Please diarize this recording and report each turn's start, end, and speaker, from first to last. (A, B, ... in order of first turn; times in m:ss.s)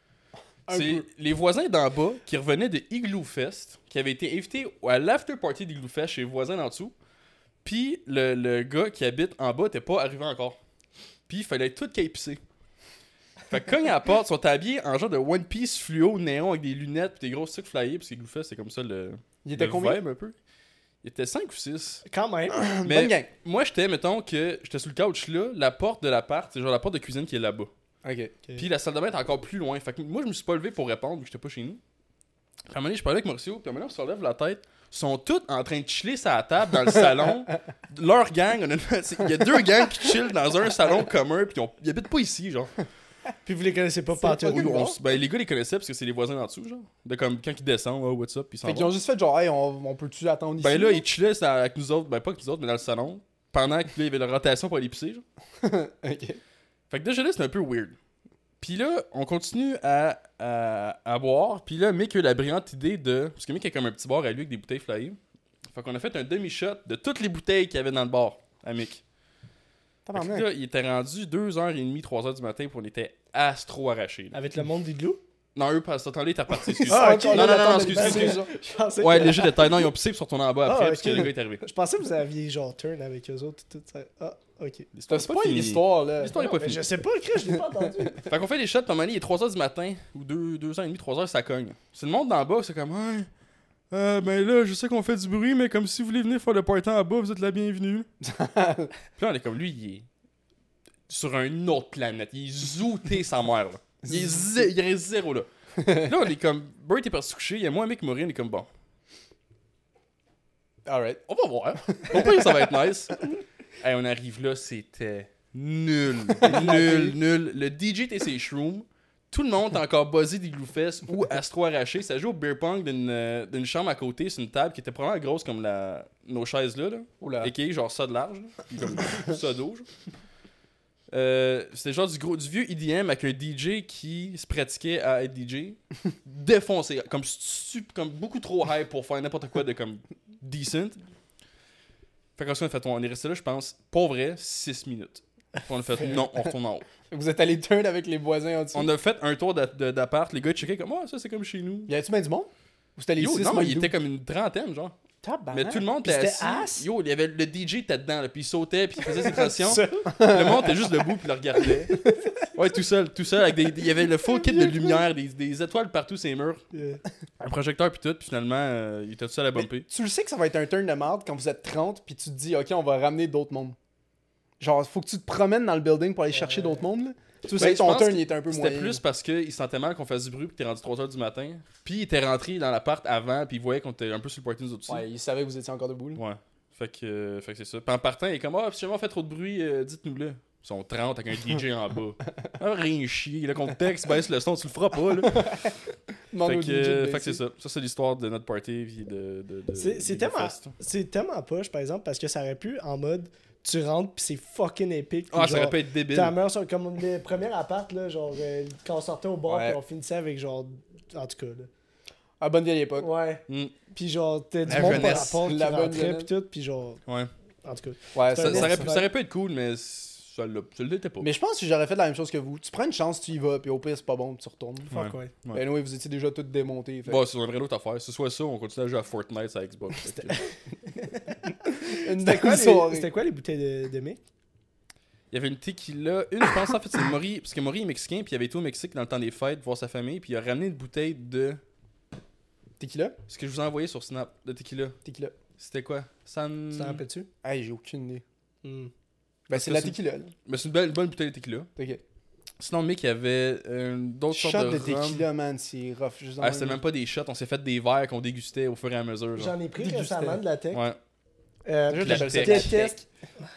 0:00.7-0:01.1 A
0:00.7-0:06.9 B
0:07.6-0:10.6 B
0:11.3-0:12.4 B
0:13.5-0:20.4 B
0:19.4-0:20.0 A
0:21.0-0:22.0 B
0:22.1-0:22.6 C
0:22.5-0:23.3 A
0:22.8-0:27.7 B
0:28.0-0:28.4 A
0:28.6-0:31.8 B
0:32.7-0:42.7 B
0:43.4-0:44.8 C
0:44.2-0:45.0 A
0:44.4-0:48.9 B
0:48.6-0:51.0 A
0:50.6-0:55.2 B
0:55.6-0:56.4 A
0:56.9-0:58.0 B
0:58.6-1:05.2 B
1:05.7-1:09.0 B
1:10.0-1:10.5 A
1:10.1-1:14.4 B
1:14.3-1:15.2 C
1:15.6-1:18.4 B
1:16.6-1:18.5 A
1:16.9-1:19.7 C
1:19.0-1:21.6 B
1:20.6-1:24.9 C
1:24.9-1:26.8 B
1:25.1-1:26.5 A
1:26.4-1:28.3 C
1:28.2-1:33.3 B
1:33.9-1:38.1 B
1:38.2-1:38.9 A
1:39.2-1:40.1 B
1:41.1-1:48.7 B
1:44.0-1:44.6 A
1:45.8-1:46.1 A
1:50.9-1:51.2 A
1:51.3-1:53.2 B
1:51.8-1:52.7 A
1:53.8-2:09.9 B
1:56.4-1:57.2 A
2:07.2-2:07.5 A
2:11.1-2:21.0 B
2:22.4-2:26.9 B
2:26.1-2:26.4 A
2:27.1-2:28.9 A
2:28.8-2:31.9 B
2:31.9-2:33.9 A
2:33.2-2:35.0 B
2:35.2-2:35.9 A
2:35.5-2:41.9 B
2:36.0-2:36.9 C
2:39.2-2:40.2 C
2:40.1-2:40.8 A
2:42.5-2:46.6 B
2:44.4-2:45.0 A
2:46.7-2:47.0 C
2:47.4-2:49.9 B
2:49.6-2:53.8 A
2:54.6-2:59.0 A
2:56.3-2:56.8 C
2:57.6-3:05.0 B
3:04.9-3:06.2 A
3:06.2-3:15.7 B
3:15.2-3:15.7 A
3:16.3-3:17.4 A
3:16.4-3:20.7 B
3:19.8-3:31.7 C
3:25.3-3:26.4 B
3:29.5-3:29.8 A
3:32.4-3:33.1 A
3:33.0-3:37.0 C
3:33.5-3:33.7 B
3:34.7-3:35.4 B
3:34.7-3:36.3 A
3:37.6-3:39.1 C
3:38.2-3:38.9 A
3:38.4-3:41.3 B
3:41.2-3:44.9 A
3:44.9-3:45.6 B
3:44.9-3:45.3 C
3:45.5-3:47.2 A
3:47.1-3:50.4 B
3:51.8-3:54.2 C
3:52.0-3:53.1 A
3:55.3-4:01.6 B
4:02.8-4:03.2 A
4:03.3-4:05.0 B
4:05.0-4:05.4 A
4:05.6-4:07.0 B
4:06.7-4:07.3 C
4:07.4-4:08.2 A
4:08.6-4:08.9 C
4:09.5-4:10.3 A
4:09.5-4:11.7 B
4:11.8-4:12.0 A
4:12.6-4:15.3 B
4:14.3-4:16.8 A
4:16.4-4:19.6 B
4:19.4-4:20.8 C
4:19.8-4:20.4 A
4:20.7-4:21.0 B
4:21.7-4:23.0 C
4:21.9-4:22.8 B
4:22.0-4:23.0 A